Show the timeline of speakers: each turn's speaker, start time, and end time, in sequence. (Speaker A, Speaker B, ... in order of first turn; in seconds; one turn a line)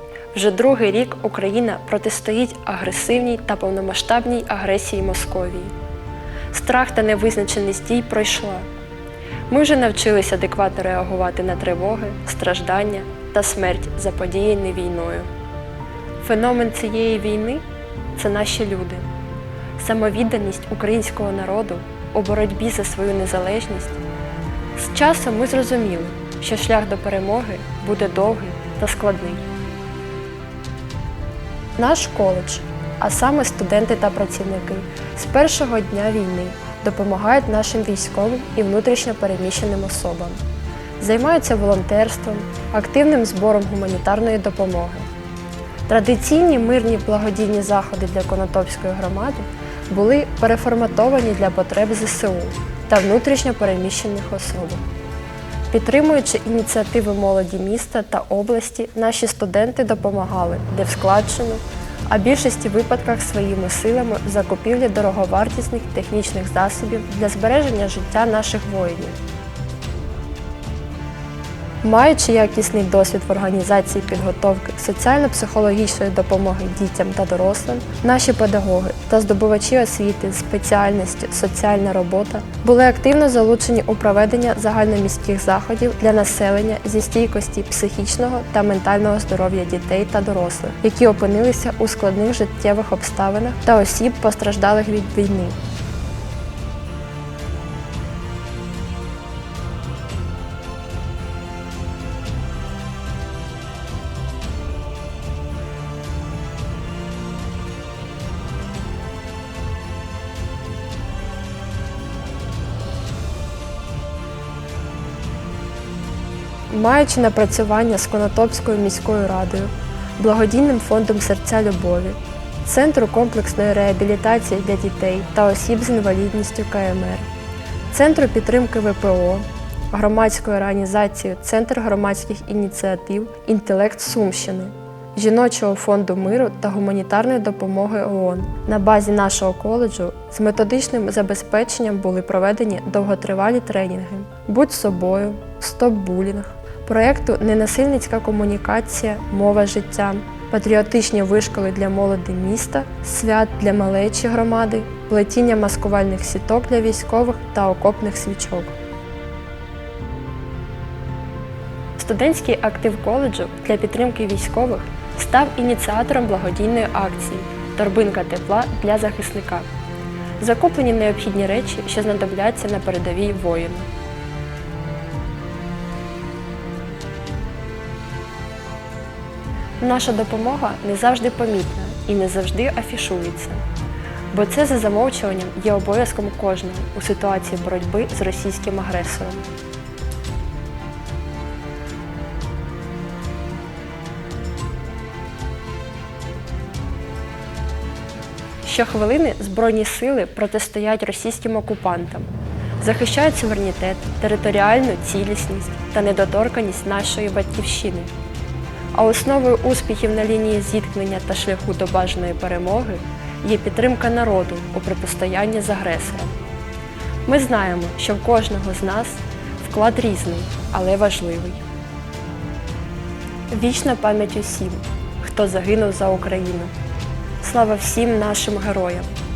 Speaker A: 0.3-5.7
Speaker A: 6.5-8.7
Speaker A: 9.5-15.3
Speaker A: 16.2-17.6
Speaker A: 18.2-19.1
Speaker A: 19.8-24.0
Speaker A: 24.8-29.4
Speaker A: 31.8-40.4
Speaker A: 41.0-45.1
Speaker A: 45.9-54.8
Speaker A: 55.7-69.2
Speaker A: 71.8-95.6
Speaker A: 116.7-127.3
Speaker A: 127.9-158.8
Speaker A: 162.0-169.7
Speaker A: 170.4-173.9
Speaker A: 179.8-183.6
Speaker A: 184.3-189.4
Speaker A: 198.6-202.3
Speaker A: 202.8-208.1
Speaker A: 208.9-216.3
Speaker A: 217.2-221.6
Speaker A: 223.5-226.7
Speaker A: 227.4-229.1